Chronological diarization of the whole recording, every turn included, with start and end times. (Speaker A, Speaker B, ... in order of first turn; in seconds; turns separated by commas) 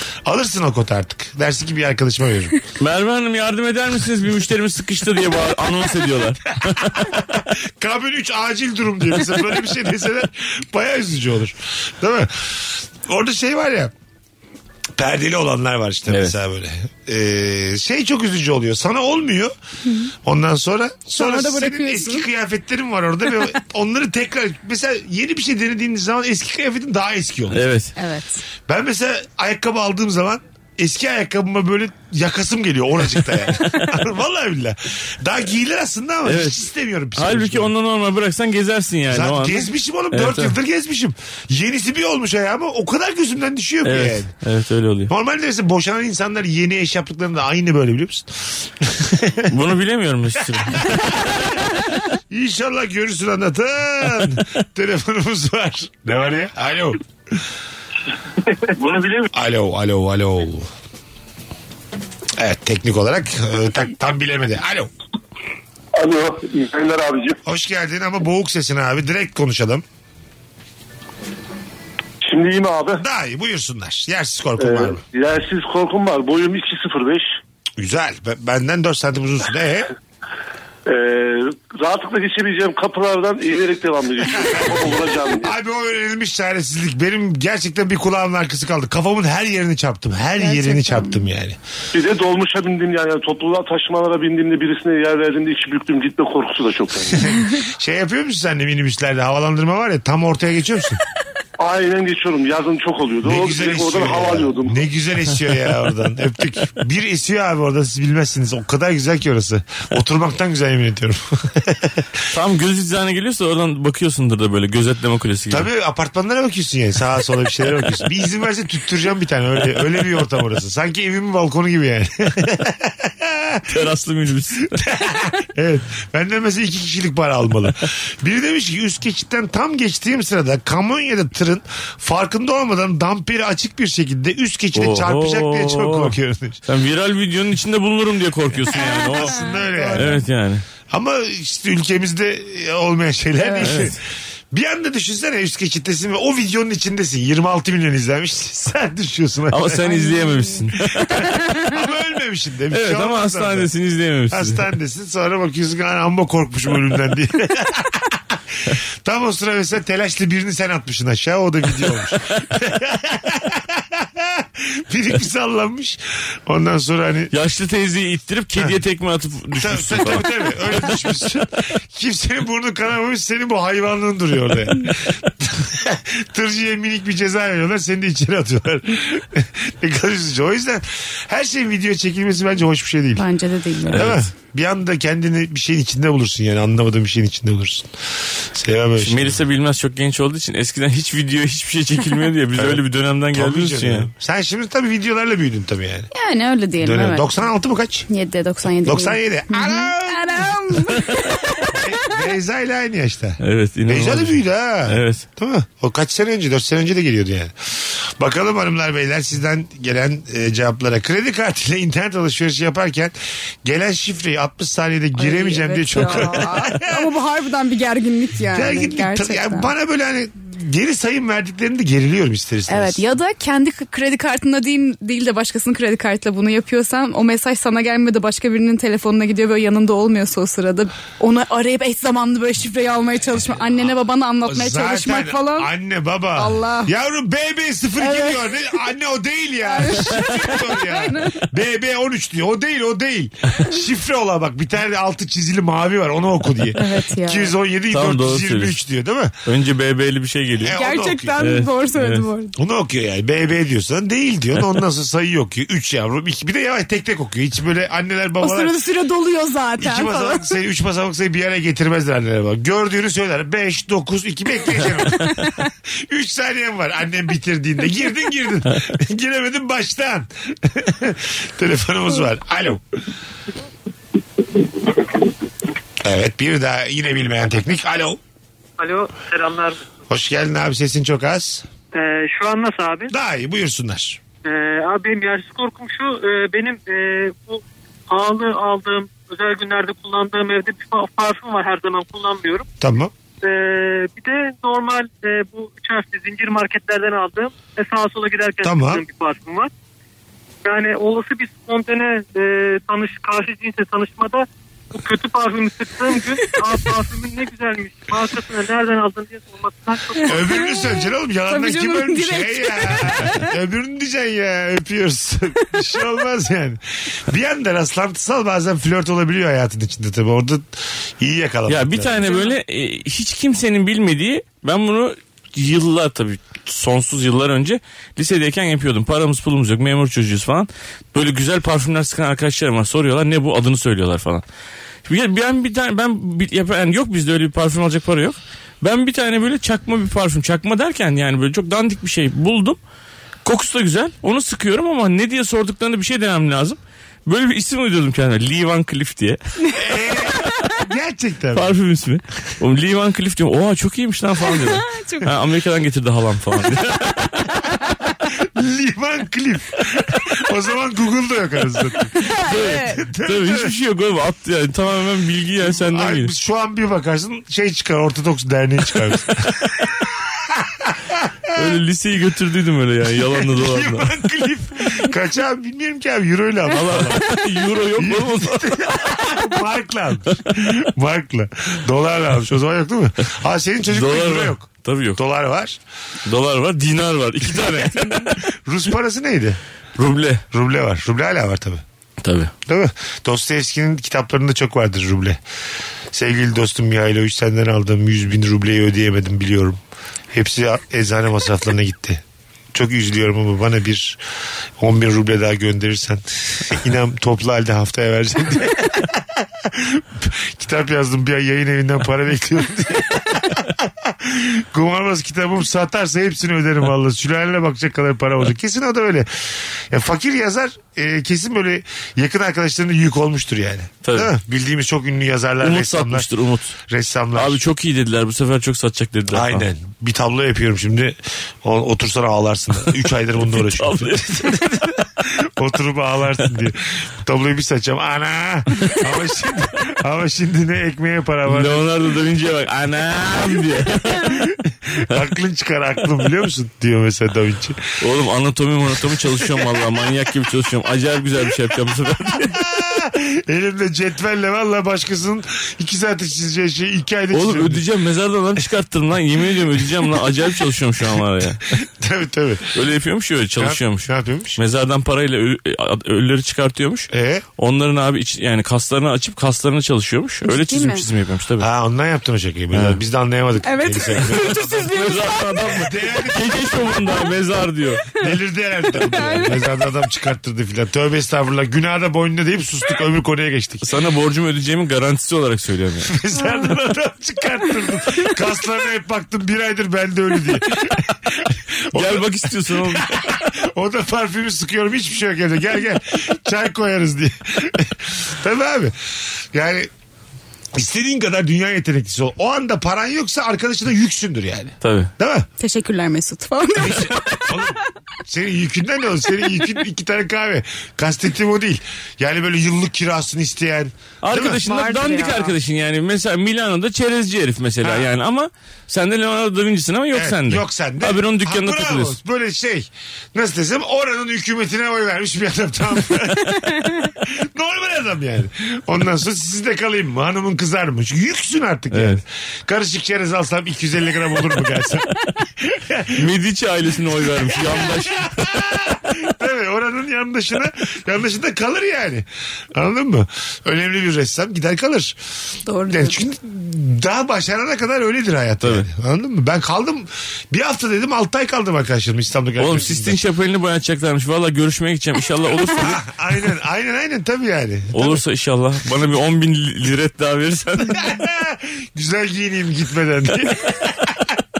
Speaker A: 0.2-2.5, Speaker B: 2.8-6.9, Speaker A: 7.0-13.9, Speaker A: 15.0-19.5, Speaker B: 16.1-16.3, Speaker A: 20.2-27.6, Speaker C: 21.1-22.2, Speaker B: 27.5-27.9, Speaker C: 28.0-28.4, Speaker A: 28.7-37.7, Speaker B: 36.2-36.6, Speaker B: 37.1-40.5, Speaker A: 39.1-44.3, Speaker B: 43.8-45.1, Speaker A: 45.1-49.5, Speaker B: 49.5-51.2, Speaker A: 50.8-51.5, Speaker A: 52.3-57.0, Speaker D: 58.8-59.1, Speaker A: 59.3-60.7, Speaker A: 62.4-64.9, Speaker D: 66.0-67.4, Speaker A: 67.4-69.8, Speaker D: 72.2-73.0, Speaker A: 73.0-75.0, Speaker D: 74.6-77.3, Speaker A: 77.8-79.9, Speaker D: 80.8-85.5, Speaker A: 84.3-91.6, Speaker C: 90.4-91.2, Speaker D: 91.9-97.2, Speaker A: 97.1-101.0, Speaker D: 101.6-104.8, Speaker A: 103.2-112.0, Speaker B: 112.3-115.7, Speaker A: 115.5-123.8, Speaker B: 123.7-124.8, Speaker A: 124.8-136.6, Speaker B: 134.7-140.6, Speaker A: 138.6-140.2, Speaker C: 138.7-140.2, Speaker A: 140.9-144.0, Speaker C: 143.4-143.8, Speaker B: 143.6-143.9, Speaker A: 144.5-149.9, Speaker B: 149.5-151.1, Speaker C: 149.8-150.6, Speaker A: 151.7-153.7, Speaker B: 152.7-154.6, Speaker A: 154.3-158.4, Speaker A: 159.0-167.3, Speaker B: 167.3-170.5, Speaker A: 169.6-183.2, Speaker C: 183.2-184.1, Speaker A: 183.9-189.4, Speaker B: 183.9-184.2, Speaker B: 189.0-194.1, Speaker A: 192.6-192.8, Speaker A: 193.3-196.1, Speaker C: 196.1-197.3, Speaker A: 196.8-198.1, Speaker C: 198.1-201.8, Speaker A: 198.8-200.8, Speaker A: 201.7-217.1, Speaker B: 203.4-205.2, Speaker C: 215.2-219.7, Speaker A: 218.5-223.0, Speaker C: 222.7-235.7, Speaker A: 234.4-249.3, Speaker C: 236.4-236.9, Speaker C: 238.0-238.5, Speaker C: 239.7-241.4, Speaker C: 246.8-247.5, Speaker B: 247.9-248.8, Speaker B: 249.4-250.8, Speaker A: 250.6-251.4, Speaker C: 250.8-252.5, Speaker B: 251.4-252.2, Speaker A: 252.6-258.7, Speaker C: 258.4-260.6, Speaker A: 259.8-265.4, Speaker A: 266.1-272.8, Speaker A: 276.0-278.2, Speaker E: 278.8-279.9, Speaker A: 280.1-281.6, Speaker E: 281.9-283.1, Speaker A: 283.1-284.2, Speaker E: 284.4-292.6, Speaker A: 292.8-293.1, Speaker E: 293.4-299.7, Speaker A: 298.6-299.0, Speaker E: 300.6-310.4, Speaker C: 310.2-313.5, Speaker A: 310.2-322.4, Speaker B: 321.7-334.4, Speaker C: 322.2-322.5, Speaker B: 335.1-342.8, Speaker B: 343.4-349.4, Speaker A: 349.7-351.7, Speaker B: 351.5-357.3, Speaker C: 354.4-355.3, Speaker A: 358.4-362.1, Speaker C: 362.2-363.0, Speaker B: 362.4-366.3, Speaker A: 362.8-363.7, Speaker A: 365.8-371.6, Speaker B: 371.5-374.1, Speaker A: 373.2-377.3, Speaker B: 376.7-379.1, Speaker A: 377.9-384.6, Speaker B: 383.9-385.2, Speaker A: 385.1-385.8, Speaker B: 386.3-388.4, Speaker A: 387.4-389.6, Speaker B: 390.0-390.4, Speaker A: 390.5-391.8, Speaker B: 392.2-392.5, Speaker A: 392.7-395.4, Speaker A: 396.1-399.8, Speaker A: 400.3-404.2, Speaker A: 404.8-426.3, Speaker B: 424.0-424.3, Speaker B: 425.6-426.7, Speaker A: 426.9-427.6, Speaker B: 427.3-429.6, Speaker A: 429.3-441.9, Speaker B: 433.6-434.6, Speaker B: 441.4-444.4, Speaker A: 444.2-447.8, Speaker B: 448.0-452.6, Speaker A: 449.4-449.7, Speaker A: 452.3-457.8, Speaker B: 457.3-461.6, Speaker A: 461.7-462.7, Speaker B: 462.7-471.7, Speaker A: 463.6-464.6, Speaker A: 467.1-467.4, Speaker C: 470.5-471.0, Speaker A: 471.6-476.8, Speaker B: 472.7-473.0, Speaker C: 473.6-475.6, Speaker B: 474.9-478.0, Speaker A: 478.2-483.8, Speaker C: 479.0-479.5, Speaker B: 483.8-486.1, Speaker A: 486.1-498.9, Speaker C: 486.4-486.7, Speaker B: 491.9-493.3, Speaker A: 499.5-499.9, Speaker A: 500.7-505.5, Speaker B: 504.8-505.1, Speaker C: 505.6-507.4, Speaker A: 506.8-514.7, Speaker B: 514.2-522.2, Speaker C: 514.6-515.5, Speaker A: 517.8-518.1, Speaker A: 520.1-535.1, Speaker B: 531.9-532.2, Speaker A: 535.6-536.3, Speaker B: 536.2-538.7, Speaker A: 537.1-545.1, Speaker C: 545.6-546.1, Speaker A: 545.9-553.2, Speaker B: 552.6-556.0, Speaker A: 555.7-558.2, Speaker B: 557.9-561.2, Speaker A: 560.8-564.2